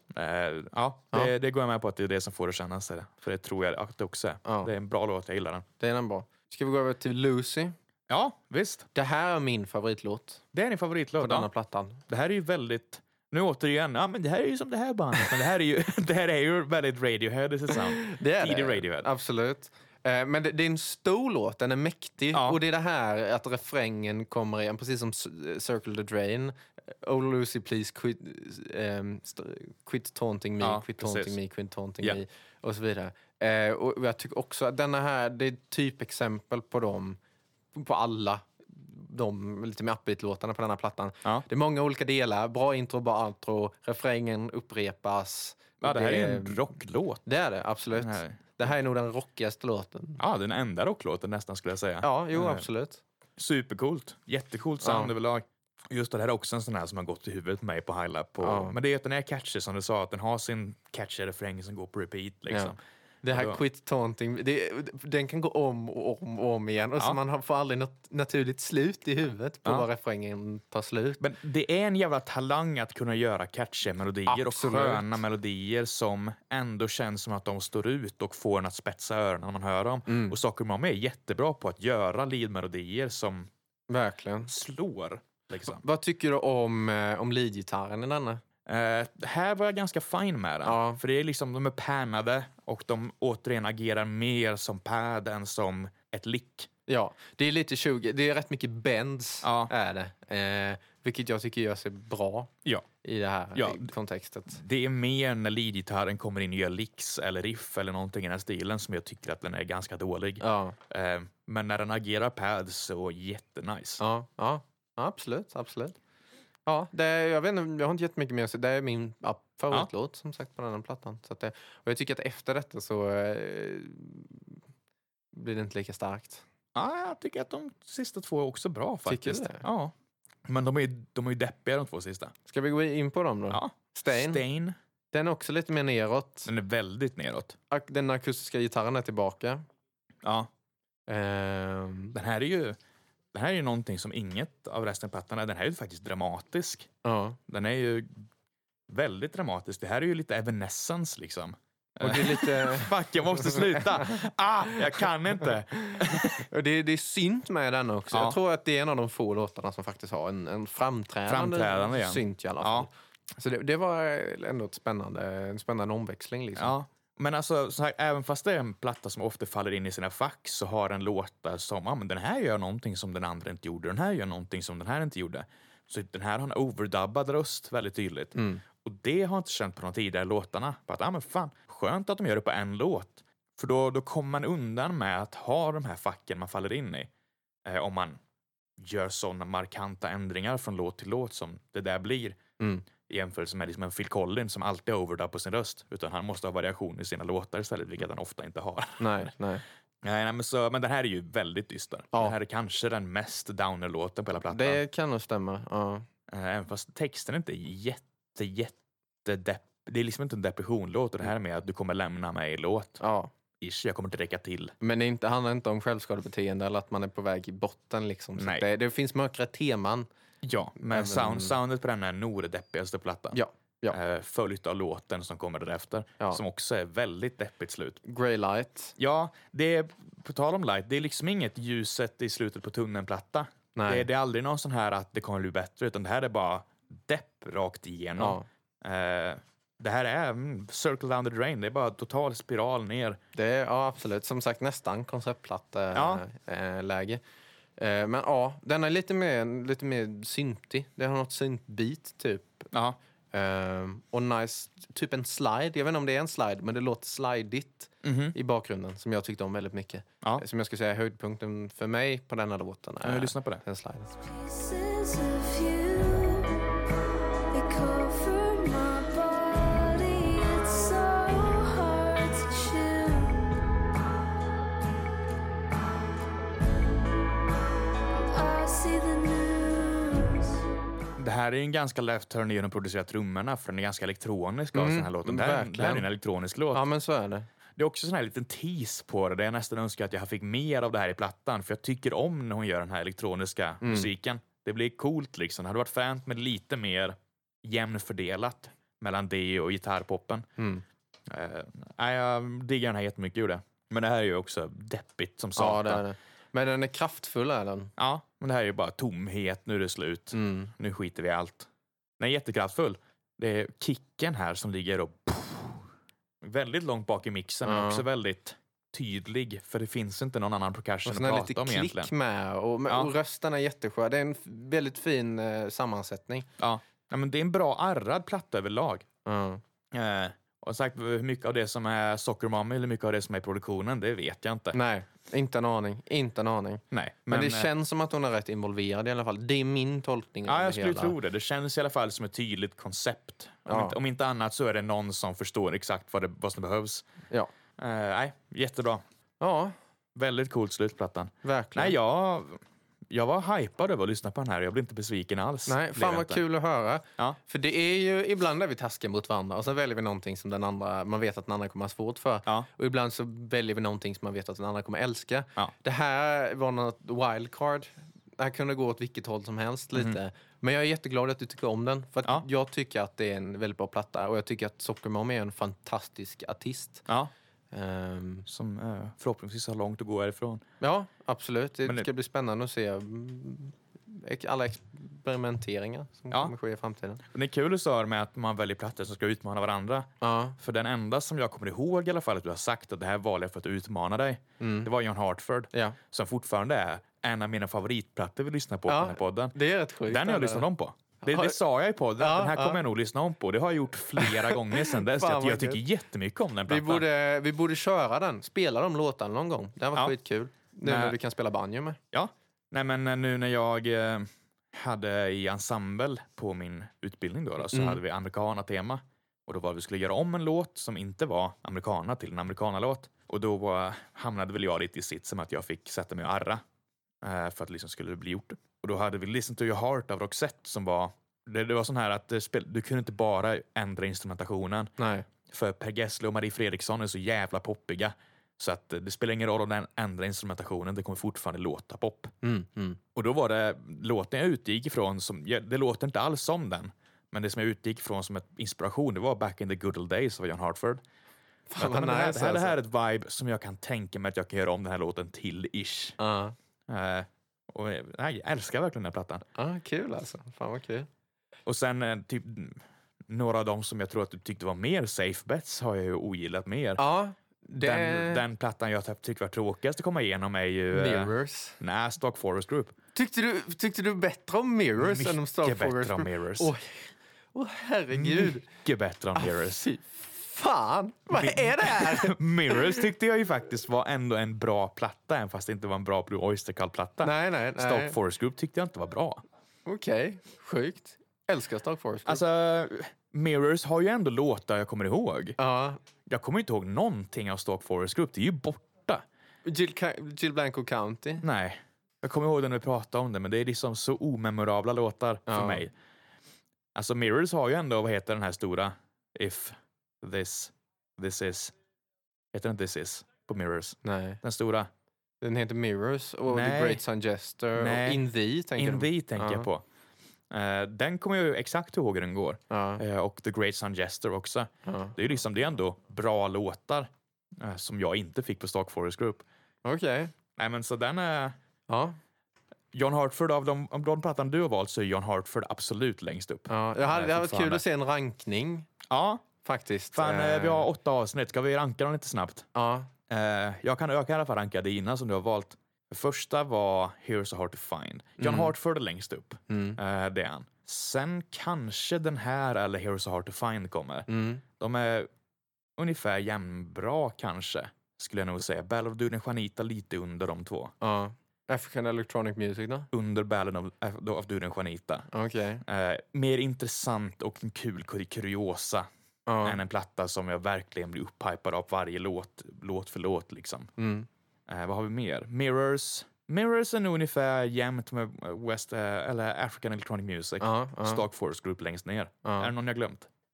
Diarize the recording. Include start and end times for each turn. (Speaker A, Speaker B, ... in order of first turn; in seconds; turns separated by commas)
Speaker A: 0.1-5.7, Speaker B: 4.5-4.7, Speaker B: 5.8-7.8, Speaker A: 8.1-8.9, Speaker B: 8.9-10.4, Speaker A: 10.5-11.5, Speaker B: 11.2-12.0, Speaker A: 12.1-19.1, Speaker B: 17.7-37.2, Speaker A: 22.3-22.6, Speaker A: 30.6-31.4, Speaker B: 37.7-46.7, Speaker A: 45.8-47.2, Speaker B: 47.2-50.2, Speaker A: 47.9-48.4, Speaker A: 50.2-52.7, Speaker B: 52.0-53.0, Speaker A: 53.4-62.8, Speaker B: 54.8-55.1, Speaker B: 58.4-58.8, Speaker B: 62.5-71.2, Speaker A: 63.3-63.6, Speaker A: 71.2-83.5, Speaker B: 74.3-75.2, Speaker B: 80.1-80.4, Speaker B: 83.9-84.5, Speaker A: 84.5-85.8, Speaker B: 85.7-88.4, Speaker A: 88.7-96.7, Speaker B: 90.7-91.0, Speaker B: 96.9-102.5, Speaker A: 99.4-99.7, Speaker B: 103.0-104.6, Speaker A: 103.5-103.9, Speaker A: 104.5-114.0, Speaker B: 110.4-110.8, Speaker B: 114.0-116.0, Speaker B: 116.7-124.6, Speaker B: 125.3-126.4, Speaker A: 126.8-129.9, Speaker B: 129.1-129.7, Speaker A: 130.5-132.3, Speaker B: 132.5-134.4, Speaker A: 133.5-134.8, Speaker B: 135.1-136.5, Speaker A: 136.5-137.6, Speaker B: 137.7-139.6, Speaker A: 140.2-140.5, Speaker B: 141.1-142.2, Speaker A: 142.1-142.8, Speaker A: 143.3-146.9, Speaker B: 147.0-147.4, Speaker A: 147.5-148.2, Speaker A: 148.9-156.5, Speaker B: 152.0-154.1, Speaker B: 156.5-166.8, Speaker A: 158.1-158.4, Speaker A: 161.3-162.9, Speaker A: 166.6-187.1, Speaker B: 178.3-178.6, Speaker A: 187.7-188.2, Speaker A: 188.8-192.4, Speaker B: 192.6-192.9, Speaker A: 193.0-199.3, Speaker B: 199.0-199.6, Speaker A: 200.0-204.8, Speaker B: 204.5-206.1, Speaker A: 206.3-213.0, Speaker B: 213.0-213.3, Speaker A: 213.6-214.8, Speaker B: 214.8-220.1, Speaker A: 218.4-218.7, Speaker A: 220.4-223.4, Speaker B: 220.8-221.5, Speaker B: 223.3-224.0, Speaker A: 223.9-228.0, Speaker B: 228.1-228.9, Speaker A: 229.0-243.2, Speaker B: 233.8-234.1, Speaker B: 238.2-238.5, Speaker B: 243.4-247.2, Speaker A: 245.9-246.2, Speaker B: 247.8-252.7, Speaker B: 253.3-264.1, Speaker A: 258.0-258.4, Speaker A: 263.0-263.6, Speaker C: 264.2-266.9, Speaker C: 267.5-273.6, Speaker C: 278.3-280.6, Speaker A: 281.2-286.9, Speaker B: 284.7-286.1, Speaker B: 286.7-287.5, Speaker A: 287.8-300.5, Speaker B: 293.8-294.1, Speaker B: 300.6-300.8, Speaker A: 301.3-306.0, Speaker B: 305.6-307.9, Speaker A: 308.0-315.9, Speaker B: 310.3-310.7, Speaker A: 316.4-322.1, Speaker B: 317.6-318.1, Speaker B: 321.1-326.5, Speaker A: 326.6-329.1, Speaker B: 329.2-329.6, Speaker A: 329.9-334.8, Speaker B: 334.7-341.2, Speaker A: 336.9-337.7, Speaker A: 340.4-347.1, Speaker B: 343.7-344.0, Speaker A: 347.8-349.0, Speaker B: 349.4-349.7, Speaker A: 350.1-356.4, Speaker B: 351.4-352.0, Speaker B: 355.7-377.0, Speaker B: 377.7-378.5, Speaker A: 378.5-380.6, Speaker B: 380.8-387.2, Speaker A: 387.3-407.1, Speaker B: 390.2-390.6, Speaker B: 394.6-394.9, Speaker B: 398.9-400.7, Speaker B: 401.2-401.6, Speaker B: 402.2-402.8, Speaker B: 404.2-405.8, Speaker B: 406.7-412.0, Speaker A: 410.8-411.2, Speaker A: 412.1-426.6, Speaker B: 417.7-418.0, Speaker A: 427.2-434.9, Speaker B: 435.0-435.3, Speaker A: 435.5-442.3, Speaker B: 442.4-443.0, Speaker A: 443.1-451.0, Speaker B: 451.7-452.8, Speaker A: 451.8-456.2, Speaker B: 456.2-456.6, Speaker A: 456.9-459.4, Speaker B: 459.6-461.1, Speaker A: 461.7-467.0, Speaker B: 467.0-468.4, Speaker A: 467.8-472.9, Speaker B: 470.9-471.8, Speaker B: 473.1-478.6, Speaker A: 475.0-476.7, Speaker A: 478.1-479.9, Speaker B: 479.4-483.0, Speaker A: 481.3-489.4, Speaker B: 487.2-488.2, Speaker B: 489.9-492.4, Speaker A: 492.3-495.6, Speaker B: 495.6-496.0, Speaker A: 496.3-499.2, Speaker B: 499.6-501.4, Speaker A: 501.4-505.9, Speaker B: 505.5-505.9, Speaker A: 506.9-511.8, Speaker A: 512.5-514.9, Speaker B: 514.0-514.4, Speaker B: 515.4-519.7, Speaker A: 516.5-517.0, Speaker A: 517.8-519.8, Speaker A: 520.5-529.5, Speaker B: 522.7-523.0, Speaker B: 524.9-525.1, Speaker B: 529.8-530.3, Speaker A: 530.6-531.6, Speaker B: 531.9-532.2, Speaker A: 532.9-537.8, Speaker B: 536.7-538.9, Speaker A: 539.1-539.4, Speaker B: 539.6-540.9, Speaker A: 540.1-542.7, Speaker B: 542.8-543.1, Speaker A: 543.3-555.3, Speaker B: 548.4-548.8, Speaker B: 549.7-550.0, Speaker B: 554.3-554.6, Speaker A: 556.0-560.9, Speaker B: 561.0-563.1, Speaker A: 563.1-565.3, Speaker B: 565.3-565.8, Speaker A: 565.8-569.1, Speaker B: 569.5-569.8, Speaker A: 569.6-573.9, Speaker B: 574.0-574.3, Speaker A: 574.7-583.3, Speaker B: 580.6-581.2, Speaker B: 582.5-582.7